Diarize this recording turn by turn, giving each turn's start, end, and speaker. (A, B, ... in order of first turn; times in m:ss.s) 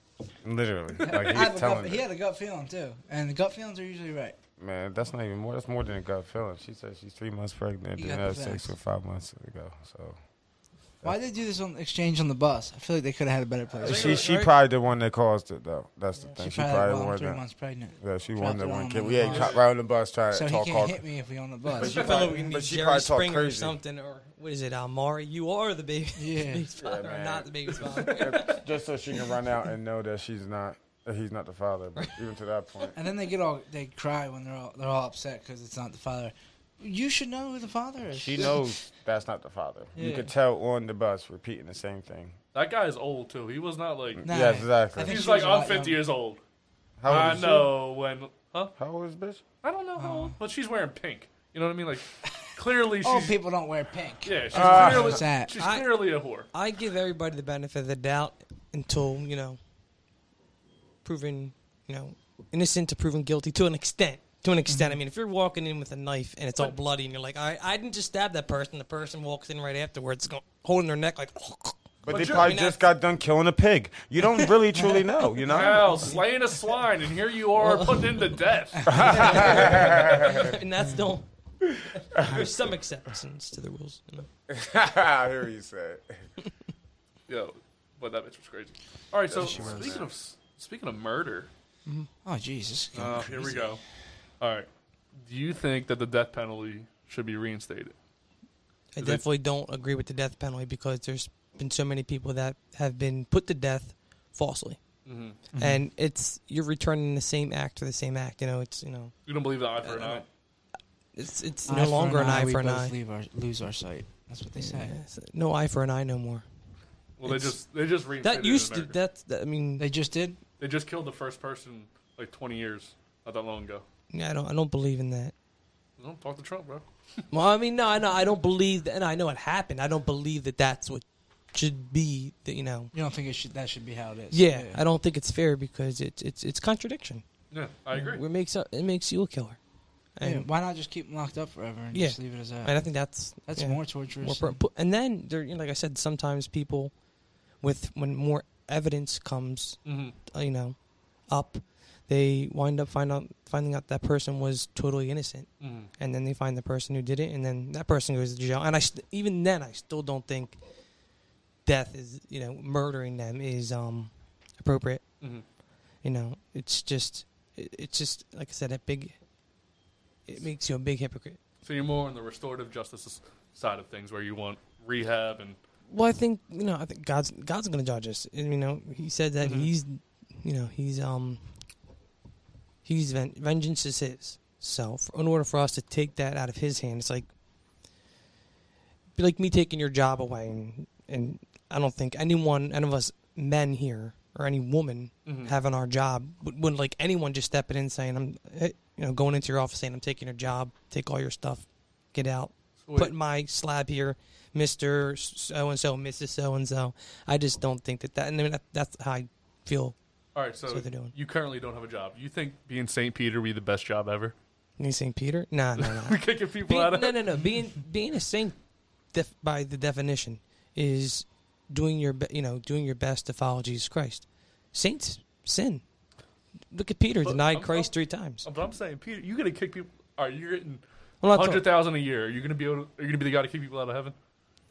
0:00.4-0:02.0 A
0:01.0-0:04.4 B
0:04.6-0:10.2 A
0:08.0-0:08.7 B
0:11.0-0:14.3 B
0:13.8-0:17.4 A
0:13.8-0:14.5 C
0:16.3-0:19.6 B
0:18.0-0:21.0 A
0:19.3-0:19.6 D
0:20.3-0:22.0 B
0:21.7-0:23.8 A
0:21.8-0:28.6 C
0:26.2-0:26.6 B
0:26.8-0:32.9 A
0:32.9-0:38.8 B
0:38.1-0:42.4 A
0:40.0-0:40.3 B
0:42.5-0:44.3 D
0:44.2-0:45.2 A
0:44.2-0:46.0 B
0:45.0-0:46.4 D
0:47.0-0:47.7 A
0:47.1-0:48.7 D
0:47.1-0:47.7 B
0:48.8-0:49.4 A
0:49.6-0:53.4 D
0:50.0-0:50.3 B
0:53.0-0:55.5 B
0:54.2-0:56.5 D
0:54.5-0:55.2 A
0:55.6-0:55.9 C
0:56.5-0:59.6 C
1:01.0-1:12.9 C
1:04.7-1:05.0 B
1:12.0-1:16.2 A
1:12.1-1:12.5 D
1:15.5-1:19.5 D
1:15.5-1:16.2 C
1:17.6-1:18.2 C
1:18.8-1:19.9 B
1:18.9-1:20.5 A
1:19.3-1:21.2 C
1:22.0-1:24.3 C
1:22.2-1:22.5 A
1:24.5-1:26.2 A
1:27.3-1:31.5 D
1:29.3-1:30.1 A
1:32.2-1:33.8 B
1:32.9-1:33.8 D
1:34.4-1:34.7 D
1:35.2-1:37.9 D
1:38.9-1:44.8 C
1:45.0-1:45.4 D
1:45.5-1:45.8 B
1:45.6-1:49.1 C
1:49.3-1:50.2 D
1:49.8-1:50.2 C
1:51.2-1:52.9 C
1:51.7-1:55.0 B
1:54.6-1:56.4 C
1:57.2-1:59.0 D
1:57.2-1:57.6 C
1:58.2-1:59.8 C
1:59.8-2:00.4 B
2:00.6-2:03.8 D
2:04.1-2:05.3 C
2:06.0-2:06.8 D
2:07.3-2:12.9 C
2:12.9-2:14.8 B
2:14.3-2:17.2 C
2:17.5-2:18.2 D
2:17.9-2:19.6 C
2:20.2-2:20.5 C
2:20.2-2:22.8 B
2:21.9-2:26.9 C
2:23.4-2:24.6 B
2:27.6-2:30.8 C
2:29.8-2:30.1 D
2:31.3-2:40.6 C
2:35.6-2:35.9 D
2:41.6-2:45.0 C
2:46.0-2:49.2 C
2:50.3-2:51.4 C
2:51.6-2:55.6 D
2:55.9-3:01.4 C
2:59.4-2:59.7 D
3:02.8-3:07.3 C
3:09.2-3:30.0 C
3:15.2-3:15.5 D
3:22.8-3:23.1 D
3:30.3-3:34.3 D
3:30.7-3:31.1 C
3:34.8-3:38.6 C
3:35.8-3:37.2 D
3:39.1-3:45.8 C
3:46.7-3:48.5 C
3:47.2-3:47.9 D
3:48.4-3:54.1 D
3:51.2-3:51.7 C